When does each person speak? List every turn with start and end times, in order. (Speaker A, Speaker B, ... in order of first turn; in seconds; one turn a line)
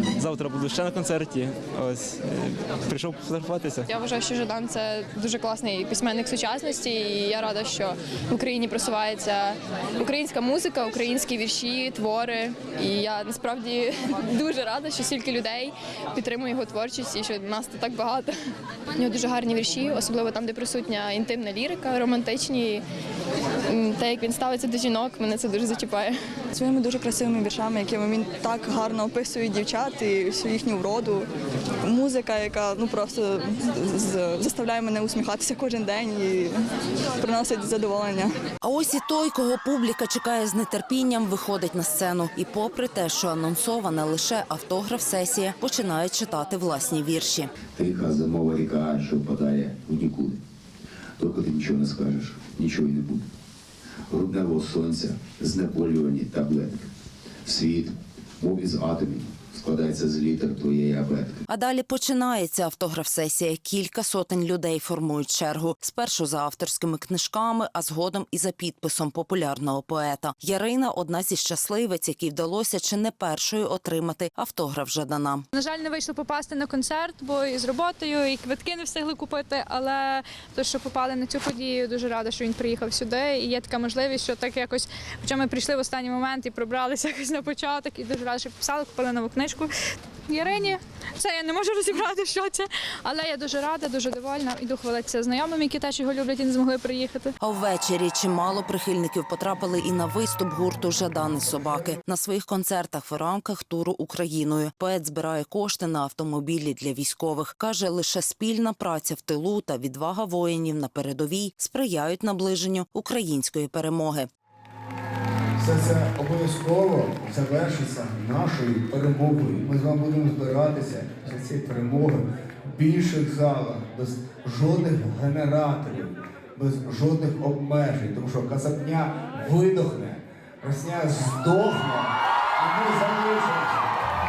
Speaker A: 0.2-3.9
Speaker B: 3.9-18.3
Speaker B: 19.0-22.8
Speaker B: 23.7-26.2
Speaker C: 26.5-31.3
Speaker C: 31.8-36.6
Speaker C: 37.2-38.3
Speaker D: 38.6-47.5
Speaker E: 47.7-50.4
Speaker E: 51.2-53.2
Speaker E: 54.1-56.9
Speaker E: 57.4-61.4
Speaker D: 61.5-75.4
Speaker F: 75.5-89.7
Speaker F: 90.3-97.3
Speaker D: 97.4-114.3
Speaker G: 115.6-133.9